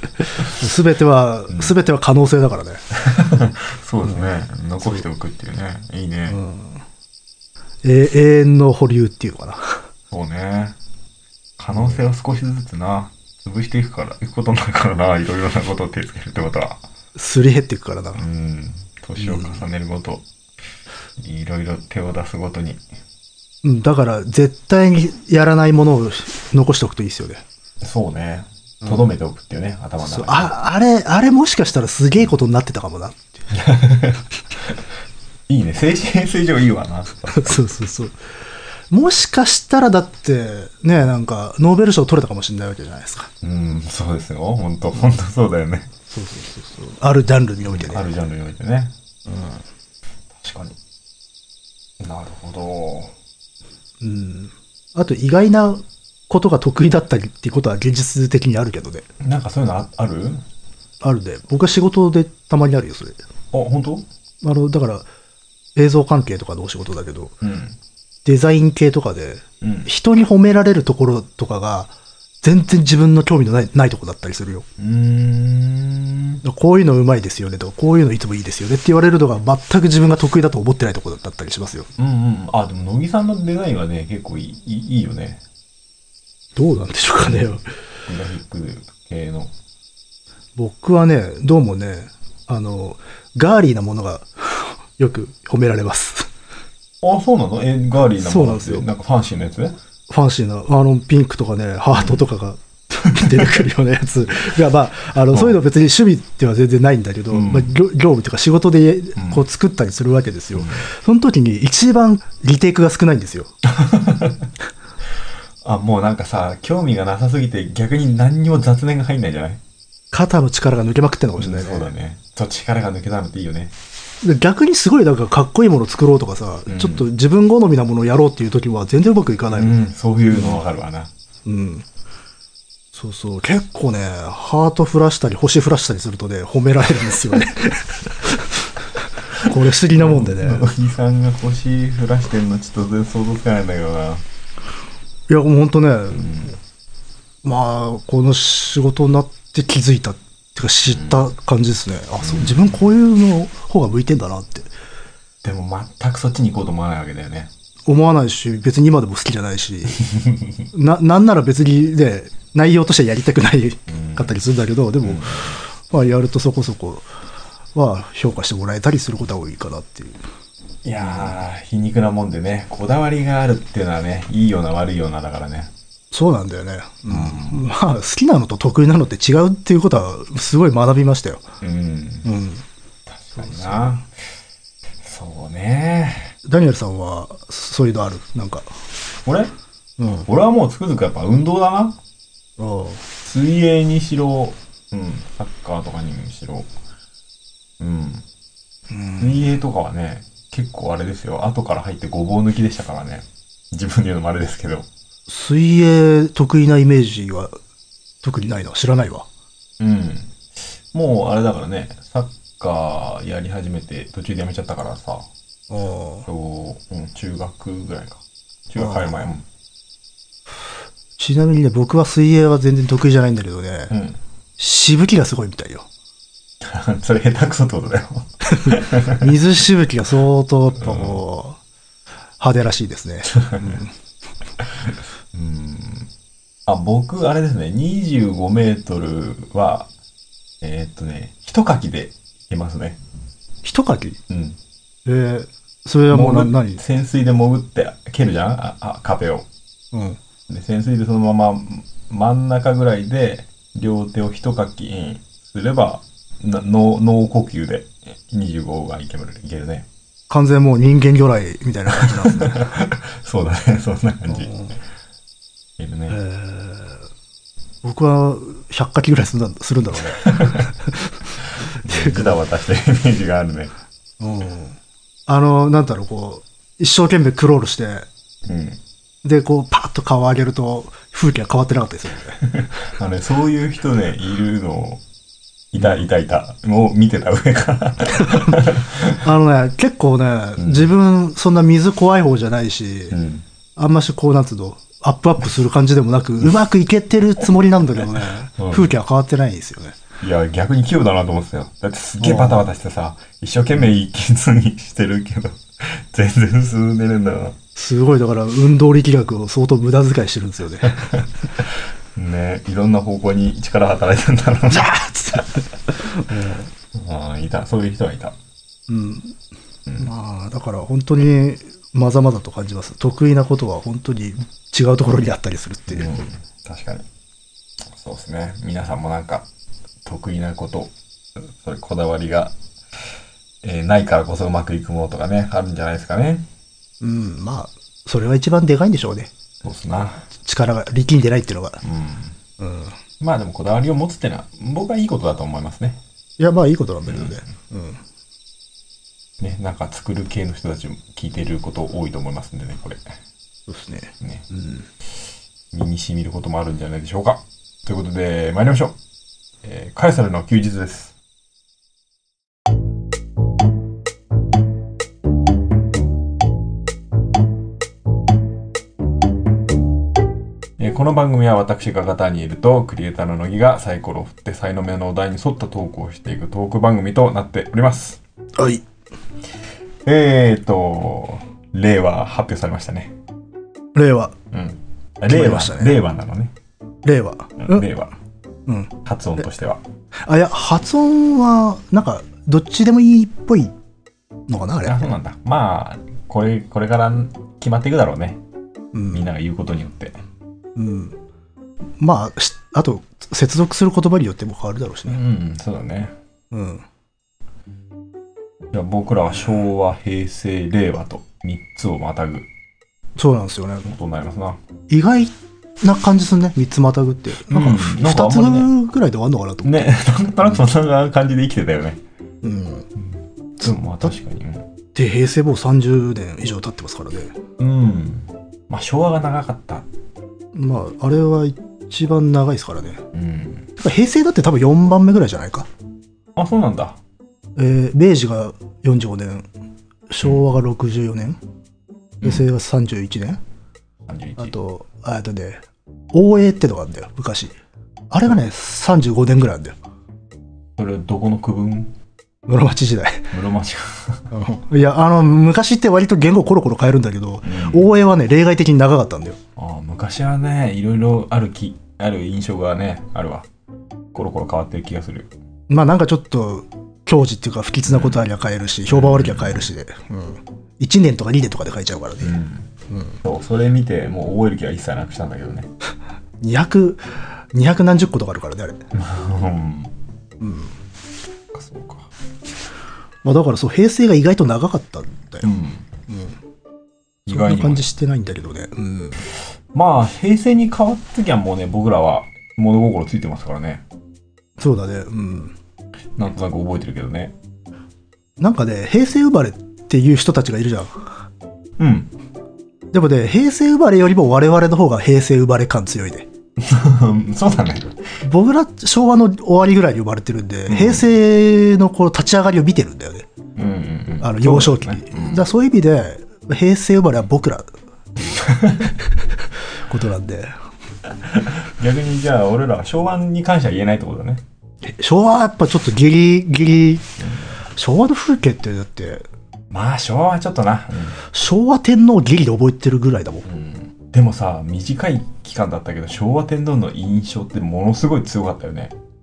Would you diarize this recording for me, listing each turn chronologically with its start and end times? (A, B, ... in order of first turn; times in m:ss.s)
0:00.2-0:02.8 A
0:03.0-0:06.4 B
0:06.3-0:06.8 A
0:07.8-0:09.8 A
0:10.1-0:10.8 B
0:11.6-0:16.8 B
0:11.7-0:12.0 A
0:17.1-0:18.2 A
0:18.1-0:20.2 B
0:19.2-0:19.6 A
0:21.2-0:22.8 B
0:23.6-0:27.4 A
0:27.8-0:30.5 B
0:30.0-0:33.4 A
0:33.5-0:34.2 B
0:35.5-0:37.6 B
0:37.3-0:38.2 A
0:38.9-0:43.3 A
0:43.4-0:45.9 B
0:46.1-0:48.1 A
0:47.7-0:48.9 B
0:49.2-0:49.6 A
0:50.3-0:50.8 B
0:52.0-0:53.1 B
0:54.0-0:59.0 A
0:59.2-1:00.4 B
1:01.0-1:03.2 A
1:03.5-1:04.1 B
1:04.4-1:05.1 A
1:05.8-1:07.3 A
1:07.4-1:07.8 B
1:08.2-1:14.6 A
1:09.6-1:09.9 B
1:14.8-1:16.4 B
1:16.4-1:21.9 A
1:22.0-1:25.4 B
1:26.6-1:27.6 A
1:27.2-1:27.6 B
1:28.1-1:29.5 B
1:30.6-1:36.3 A
1:37.0-1:39.8 B
1:38.2-1:38.9 A
1:40.1-1:53.5 A
1:41.9-1:42.2 B
1:43.2-1:43.5 B
1:45.3-1:45.6 B
1:47.3-1:47.7 B
1:49.2-1:49.4 B
1:50.5-1:50.8 B
1:53.6-1:54.5 B
1:55.6-1:59.6 B
2:00.1-2:01.9 A
2:01.4-2:03.7 B
2:04.2-2:09.8 A
2:06.7-2:07.0 B
2:09.5-2:11.1 B
2:10.3-2:10.6 A
2:11.4-2:11.8 A
2:12.9-2:18.6 A
2:19.3-2:20.7 A
2:19.9-2:24.2 B
2:25.3-2:26.5 A
2:26.1-2:26.5 B
2:27.4-2:34.7 A
2:30.9-2:31.2 B
2:32.2-2:32.7 B
2:35.4-2:37.5 B
2:37.9-2:40.0 A
2:40.1-2:40.4 B
2:40.7-2:47.0 A
2:43.9-2:44.4 B
2:45.0-2:45.6 B
2:47.7-2:50.2 A
2:50.8-2:55.7 B
2:51.0-2:51.4 A
2:56.1-3:01.4 A
2:57.1-2:57.6 B
3:01.6-3:02.3 B
3:02.2-3:02.6 A
3:03.1-3:04.1 B
3:03.4-3:04.0 A
3:05.0-3:06.3 B
3:06.4-3:08.7 A
3:09.2-3:09.5 B
3:10.0-3:10.3 A
3:10.3-3:12.0 B
3:12.6-3:13.0 A
3:13.2-3:16.7 B
3:17.8-3:18.2 B
3:18.9-3:19.4 A
3:19.2-3:24.9 B
3:25.3-3:27.5 A
3:28.2-3:29.3 A
3:29.8-3:30.4 B
3:30.9-3:35.3 B
3:35.7-3:36.3 A
3:36.2-3:39.4 B
3:38.8-3:39.1 A
3:41.2-3:43.9 A
3:43.9-3:44.2 B
3:44.6-3:45.9 A
3:46.6-3:49.2 B
3:48.4-3:51.6 A
3:50.8-3:51.2 B
3:52.4-3:53.9 A
3:55.3-3:56.1 B
3:56.6-3:59.9 B
4:00.6-4:03.0 B
4:03.6-4:04.2 A
4:04.3-4:04.6 B
4:05.0-4:06.8 A
4:06.1-4:09.5 B
4:09.9-4:10.2 A
4:10.5-4:19.9 B
4:20.3-4:22.6 A
4:22.0-4:24.5 B
4:24.3-4:24.8 A
4:25.8-4:26.2 B
4:26.1-4:27.0 A
4:27.8-4:31.2 A
4:30.2-4:30.6 B
4:31.7-4:32.4 A
4:31.8-4:33.7 B
4:34.2-4:38.1 A
4:38.4-4:38.8 B
4:39.2-4:42.4 A
4:42.4-4:45.0 B
4:45.7-4:49.2 B
4:48.2-4:48.6 A
4:49.2-4:53.1 A
4:50.6-4:50.9 B
4:53.1-4:53.4 B
4:53.8-5:00.0 A
4:58.6-4:58.9 B
5:00.2-5:07.6 B
5:02.2-5:02.7 A
5:07.8-5:11.1 A
5:11.0-5:14.9 B
5:14.7-5:16.7 A
5:16.9-5:18.4 B
5:18.9-5:19.3 A
5:20.0-5:26.2 A
5:25.9-5:27.0 B
5:27.9-5:29.5 B
5:30.0-5:32.5 B
5:33.6-5:36.5 B
5:37.0-5:39.3 A
5:39.6-5:40.2 B
5:40.3-5:41.8 A
5:41.8-5:42.4 B
5:42.6-5:42.9 A
5:43.2-5:46.0 B
5:46.4-5:48.0 A
5:47.0-5:47.4 B
5:49.4-5:53.1 B
5:53.7-5:54.8 A
5:55.7-5:59.0 B
5:59.6-6:01.1 B
6:10.8-6:18.2 B
6:18.6-6:18.8 A
6:20.0-6:23.1 B
6:23.9-6:24.3 A
6:24.5-6:26.5 B
6:25.3-6:26.0 A
6:27.0-6:27.9 A
6:27.6-6:28.1 B
6:29.0-6:29.8 B
6:30.2-6:33.7 A
6:34.5-6:35.1 A
6:34.8-6:38.4 B
6:38.9-6:39.3 A
6:39.1-6:40.2 B
6:40.8-6:41.2 A
6:42.0-6:45.2 A
6:45.0-6:46.1 B
6:46.5-6:46.8 A
6:48.7-6:52.5 B
6:53.2-6:53.9 A
6:53.8-6:54.6 B
6:54.9-6:59.9 A
6:57.5-6:58.7 B
6:59.6-7:02.0 B
7:02.4-7:02.9 A
7:03.0-7:04.7 B
7:03.6-7:04.1 A
7:04.9-7:07.3 A
7:07.6-7:09.9 B
7:10.5-7:13.0 A
7:13.1-7:13.7 B
7:13.8-7:15.7 A
7:16.4-7:17.0 B
7:17.6-7:19.4 A
7:20.1-7:21.4 A
7:22.2-7:23.4 A
7:24.1-7:24.5 B
7:24.4-7:27.5 A
7:28.1-7:29.7 A
7:30.8-7:31.9 B
7:32.5-7:33.3 A
7:33.3-7:34.3 B
7:34.3-7:39.4 A
7:37.4-7:37.9 B
7:39.6-7:43.5 B
7:44.1-7:45.3 B
7:45.7-7:52.3 A
7:47.9-7:48.2 B
7:48.9-7:49.7 B
7:52.2-7:52.7 B
7:52.9-7:53.2 A
7:53.2-7:55.7 B
7:56.4-7:57.0 A
7:57.5-7:58.8 A
7:58.9-7:59.9 B
8:00.4-8:00.7 A
8:01.5-8:02.1 B
8:03.2-8:05.5 A
8:05.4-8:05.9 B
8:06.1-8:06.4 A
8:07.2-8:07.8 B
8:07.3-8:09.2 A
8:09.7-8:13.8 B
8:14.6-8:15.5 A
8:16.2-8:17.3 B
8:18.4-8:21.0 A
8:21.8-8:22.1 B
8:22.9-8:26.3 A
8:26.6-8:28.0 B
8:28.2-8:33.3 A
8:30.7-8:31.0 B
8:33.6-8:35.4 B
8:34.2-8:37.7 A
8:38.2-8:38.9 B
8:39.8-8:40.5 A
8:41.1-8:44.4 B
8:44.8-8:47.1 A
8:47.7-8:49.2 A
8:49.7-8:51.2 B
8:51.3-8:53.4 A
8:53.4-8:58.9 B